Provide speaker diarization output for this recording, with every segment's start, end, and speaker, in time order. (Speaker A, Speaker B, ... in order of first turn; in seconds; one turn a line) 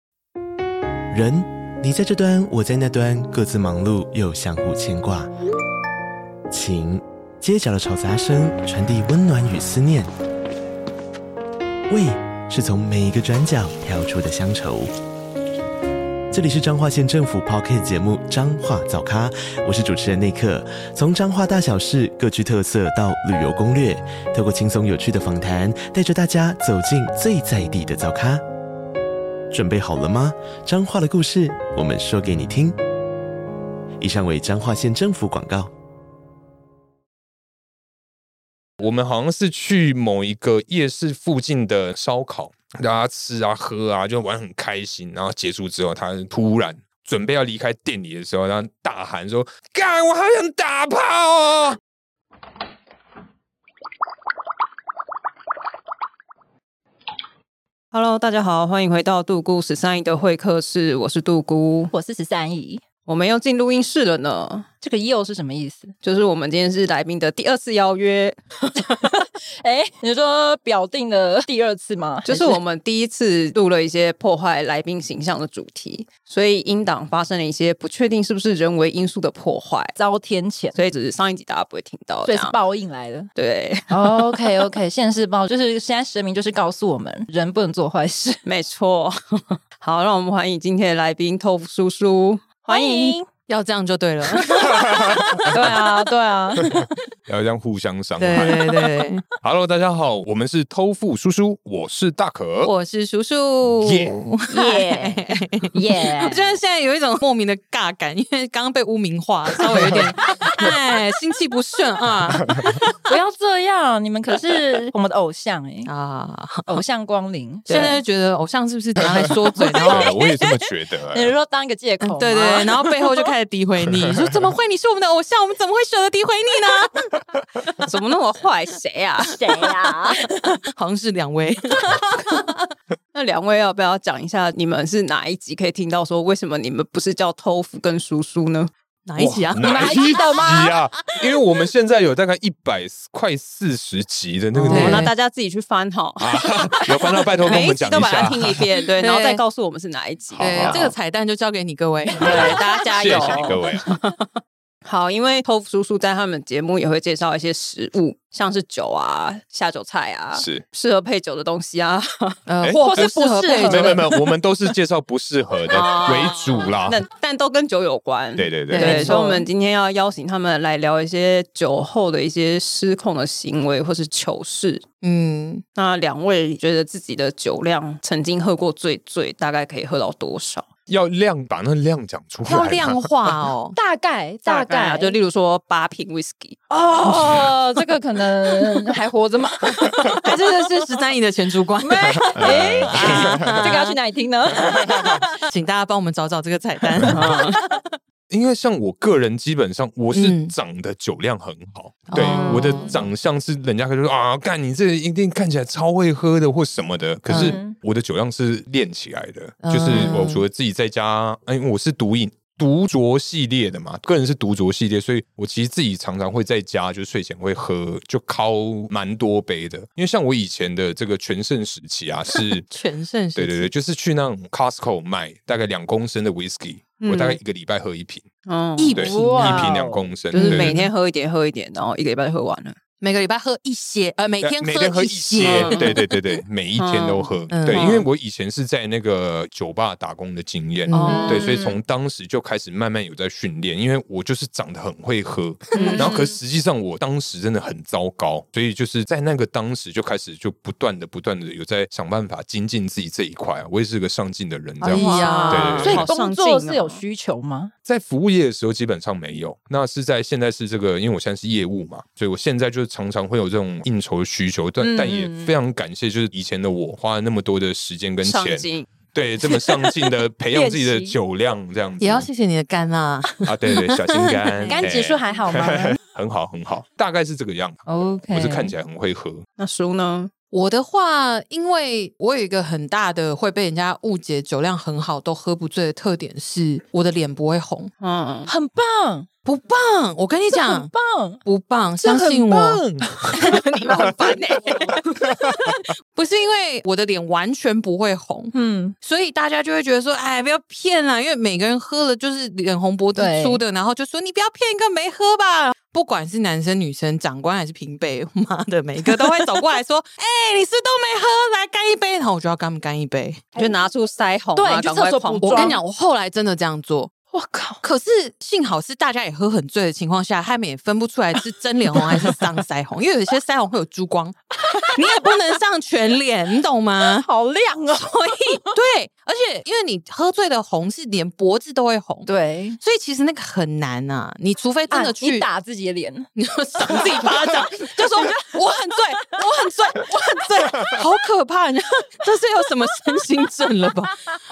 Speaker A: 1.1-5.3
Speaker A: 6.5-10.1
Speaker A: 11.9-14.9
Speaker A: 16.3-28.4
Speaker A: 29.5-32.8
Speaker A: 34.0-35.7
Speaker B: 38.8-51.8
Speaker C: 57.9-61.9
Speaker D: 61.9-62.8
Speaker C: 63.0-64.7
Speaker D: 64.8-65.9
Speaker C: 66.0-68.4
Speaker D: 69.0-72.6
Speaker C: 72.2-79.9
Speaker D: 80.0-80.8
Speaker C: 80.7-82.5
Speaker D: 82.2-83.3
Speaker C: 83.3-84.6
Speaker D: 83.9-88.4
Speaker C: 88.4-93.2
Speaker D: 92.7-93.3
Speaker E: 93.5-94.7
Speaker B: 94.8-95.1
Speaker D: 95.4-96.9
Speaker B: 97.3-98.5
Speaker E: 98.2-99.2
Speaker D: 98.3-98.7
Speaker B: 99.4-102.7
Speaker E: 102.6-112.9
Speaker B: 103.8-104.1
Speaker C: 104.5-105.3
Speaker D: 105.7-106.5
Speaker D: 113.1-115.9
Speaker E: 115.8-116.8
Speaker D: 116.7-117.9
Speaker C: 117.7-118.0
Speaker E: 117.7-120.2
Speaker B: 119.7-121.3
Speaker D: 119.9-123.2
Speaker E: 122.0-127.1
Speaker C: 127.8-130.2
Speaker D: 129.2-130.6
Speaker E: 130.7-132.6
Speaker C: 133.1-138.7
Speaker E: 139.1-139.9
Speaker B: 139.2-145.1
Speaker D: 139.6-140.8
Speaker E: 144.6-145.1
Speaker C: 144.6-150.8
Speaker B: 146.2-148.7
Speaker E: 149.0-149.4
Speaker B: 150.4-150.9
Speaker E: 150.4-153.6
Speaker C: 152.2-162.4
Speaker B: 152.2-153.9
Speaker B: 160.3-160.7
Speaker E: 162.5-164.0
Speaker B: 162.6-163.1
Speaker D: 162.8-163.9
Speaker B: 163.6-167.0
Speaker C: 165.7-174.8
Speaker B: 168.3-169.1
Speaker E: 168.7-169.4
Speaker D: 168.8-169.4
Speaker E: 175.0-175.6
Speaker C: 175.7-180.7
Speaker B: 180.9-183.4
Speaker E: 182.4-183.8
Speaker D: 183.8-185.2
Speaker C: 184.4-186.6
Speaker D: 186.7-190.3
Speaker B: 187.1-187.5
Speaker E: 190.2-193.9
Speaker D: 191.8-195.2
Speaker B: 192.3-193.6
Speaker E: 195.0-197.5
Speaker C: 197.0-197.6
Speaker B: 198.3-222.7
Speaker E: 200.1-200.5
Speaker E: 202.1-202.9
Speaker C: 202.1-202.9
Speaker D: 202.2-202.6
Speaker D: 207.3-207.7
Speaker C: 207.3-207.6
Speaker E: 209.6-210.4
Speaker E: 222.6-223.7
Speaker B: 223.3-228.3
Speaker C: 227.0-227.4
Speaker C: 228.4-229.0
Speaker E: 228.8-229.7
Speaker B: 228.9-230.9
Speaker D: 229.0-230.2
Speaker C: 230.3-232.8
Speaker E: 230.3-230.9
Speaker E: 233.0-236.0
Speaker B: 234.4-256.1
Speaker C: 235.4-236.0
Speaker C: 236.8-238.0
Speaker E: 237.5-238.0
Speaker E: 240.9-241.4
Speaker C: 240.9-241.6
Speaker D: 241.1-241.8
Speaker C: 245.7-246.1
Speaker E: 245.8-246.0
Speaker D: 245.8-246.3
Speaker C: 254.8-257.0
Speaker E: 254.9-256.1
Speaker D: 255.1-257.7
Speaker B: 257.9-272.3
Speaker D: 264.8-265.5
Speaker C: 268.2-268.9
Speaker C: 269.5-270.0
Speaker D: 270.5-271.1
Speaker E: 272.0-274.8
Speaker B: 273.4-279.4
Speaker D: 274.7-276.0
Speaker D: 277.9-278.7
Speaker C: 279.6-280.3
Speaker E: 280.5-287.9
Speaker C: 288.0-288.5
Speaker D: 288.5-289.3
Speaker E: 289.4-290.9
Speaker D: 290.5-291.4
Speaker E: 291.4-292.8
Speaker B: 292.0-293.4
Speaker E: 293.4-313.4
Speaker C: 293.5-294.7
Speaker D: 298.5-298.9
Speaker D: 303.1-303.6
Speaker C: 313.6-315.8
Speaker D: 314.6-315.8
Speaker E: 315.4-317.1
Speaker D: 317.3-317.8
Speaker E: 317.8-324.4
Speaker D: 324.6-325.3
Speaker E: 324.9-327.3
Speaker D: 327.0-328.7
Speaker E: 328.0-332.3
Speaker D: 332.2-332.8
Speaker E: 332.8-335.4
Speaker D: 334.9-336.3
Speaker E: 336.4-344.2
Speaker D: 336.8-337.6
Speaker D: 338.1-338.5